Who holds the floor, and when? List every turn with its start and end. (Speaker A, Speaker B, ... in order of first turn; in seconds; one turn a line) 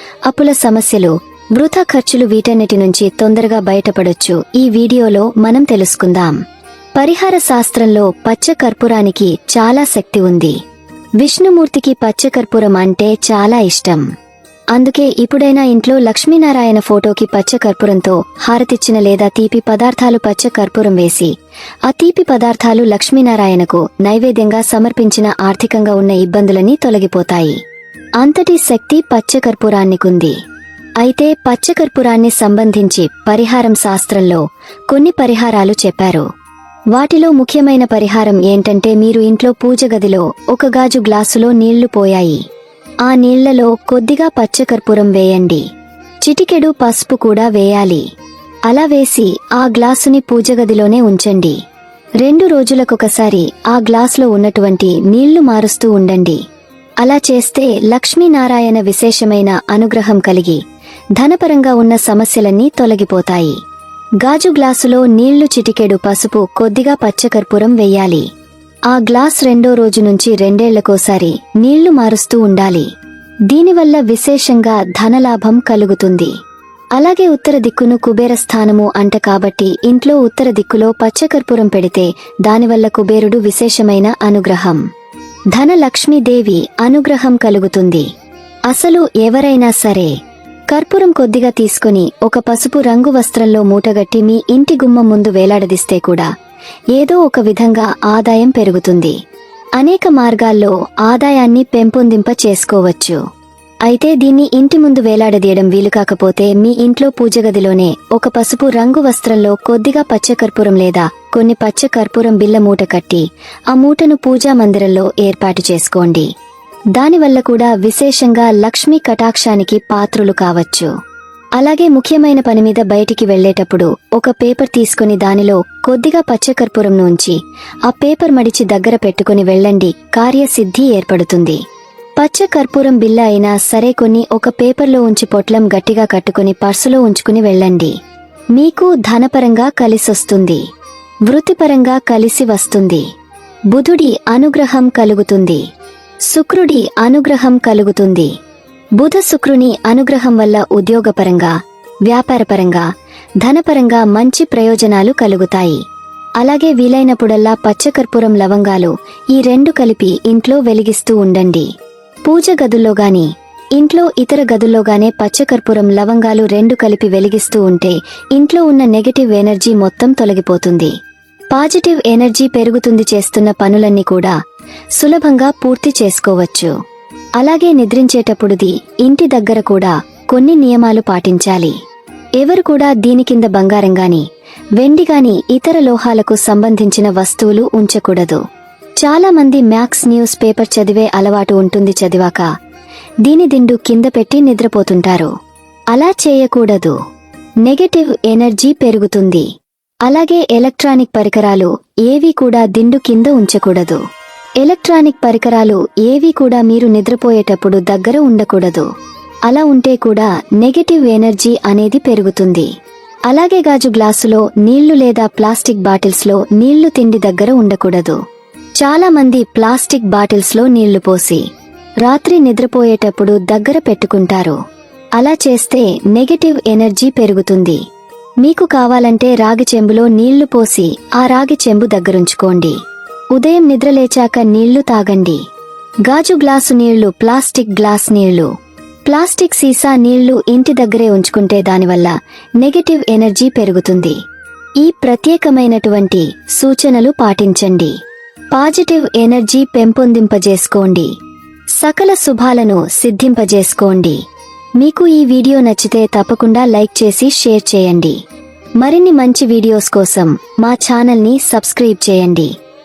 Speaker A: 0.3-6.4
Speaker A: 7.0-10.6
Speaker A: 11.2-14.0
Speaker A: 14.7-21.3
Speaker A: 21.9-27.6
Speaker A: 28.2-30.4
Speaker A: 31.0-36.3
Speaker A: 36.9-42.4
Speaker A: 43.0-45.6
Speaker A: 46.2-48.0
Speaker A: 48.7-51.6
Speaker A: 52.2-56.4
Speaker A: 57.0-60.6
Speaker A: 61.2-63.6
Speaker A: 64.2-68.3
Speaker A: 68.9-72.9
Speaker A: 73.5-76.3
Speaker A: 77.0-84.8
Speaker A: 85.5-88.1
Speaker A: 88.7-90.2
Speaker A: 90.7-96.3
Speaker A: 96.9-99.2
Speaker A: 99.8-103.2
Speaker A: 103.9-116.3
Speaker A: 116.9-120.9
Speaker A: 121.6-131.6
Speaker A: 132.2-137.9
Speaker A: 138.5-140.6
Speaker A: 141.3-143.1
Speaker A: 143.7-145.6
Speaker A: 146.3-148.3
Speaker A: 149.0-151.5
Speaker A: 152.1-152.9
Speaker A: 153.4-155.8
Speaker A: 156.4-161.7
Speaker A: 162.2-170.9
Speaker A: 171.5-174.3
Speaker A: 174.9-176.7
Speaker A: 177.4-181.8
Speaker A: 182.4-184.2
Speaker A: 184.8-188.4
Speaker A: 189.0-192.5
Speaker A: 193.2-195.3
Speaker A: 195.9-197.0
Speaker A: 197.6-199.5
Speaker A: 200.1-204.0
Speaker A: 204.6-208.9
Speaker A: 209.5-212.7
Speaker A: 213.3-218.2
Speaker A: 218.8-221.4
Speaker A: 222.0-224.6
Speaker A: 225.2-227.8
Speaker A: 228.4-232.8
Speaker A: 233.3-235.4
Speaker A: 236.1-238.5
Speaker A: 239.1-244.2
Speaker A: 244.8-247.9
Speaker A: 248.5-251.1
Speaker A: 251.8-254.2
Speaker A: 254.8-258.2
Speaker A: 258.8-262.5